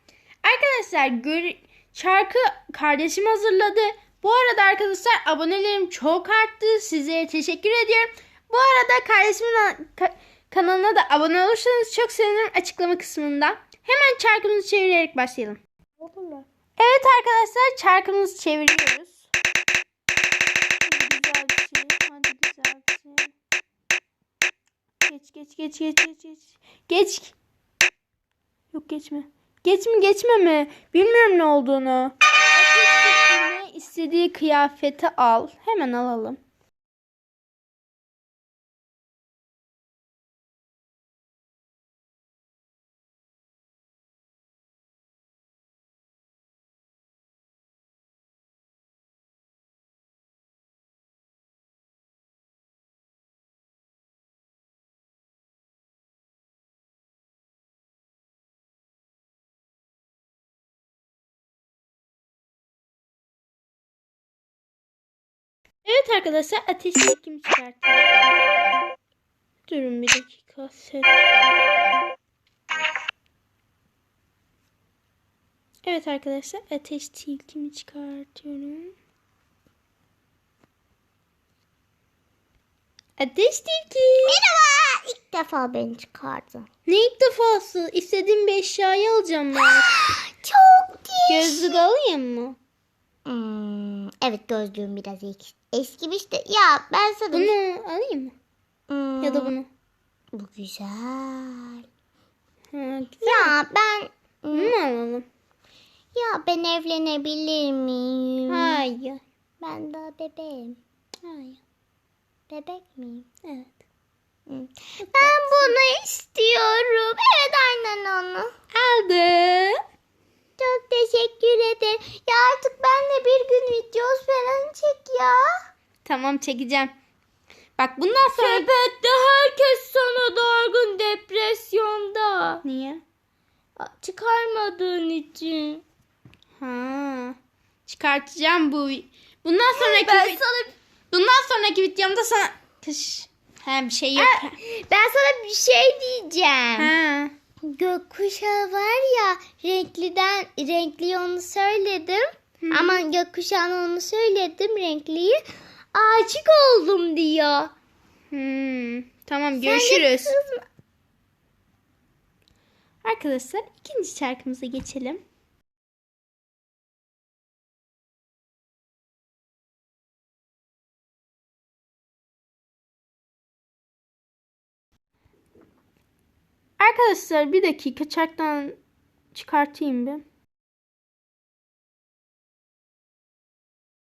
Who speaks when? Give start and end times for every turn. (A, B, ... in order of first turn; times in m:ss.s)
0:00.4-0:15.6 A
0:16.0-0:16.4 B
0:16.8-0:19.3 A
0:20.8-0:23.3 A
0:25.0-0:27.4 A
0:28.7-0:36.4 A
1:05.8-1:08.2 A
1:09.7-1:11.2 A
1:15.8-1:18.9 A
1:23.2-1:24.4 A
1:24.2-1:26.7 B
1:26.8-1:30.0 A
1:29.9-1:31.8 B
1:31.3-1:32.6 A
1:33.2-1:37.5 B
1:37.3-1:38.3 A
1:38.9-1:39.5 B
1:39.2-1:39.7 A
1:40.3-1:41.8 B
1:42.7-1:43.6 A
1:43.2-1:44.7 B
1:44.5-1:45.2 A
1:46.1-1:48.8 B
1:48.5-1:49.2 A
1:49.6-1:50.8 B
1:51.2-1:51.6 A
1:52.5-1:53.2 B
1:53.4-1:53.8 A
1:54.5-1:58.5 B
1:55.0-1:55.8 A
1:58.7-1:59.8 A
2:00.6-2:05.5 B
2:06.0-2:06.9 A
2:07.8-2:08.6 A
2:08.3-2:12.6 B
2:12.6-2:13.0 A
2:13.8-2:15.8 B
2:16.6-2:20.4 A
2:19.7-2:20.7 B
2:21.1-2:24.6 A
2:24.2-2:26.9 B
2:26.8-2:27.3 A
2:27.6-2:35.4 B
2:32.6-2:33.0 A
2:35.9-2:37.7 B
2:38.3-2:40.4 A
2:39.6-2:40.6 B
2:43.0-2:45.2 A
2:56.8-2:58.8 A
2:59.3-3:00.2 A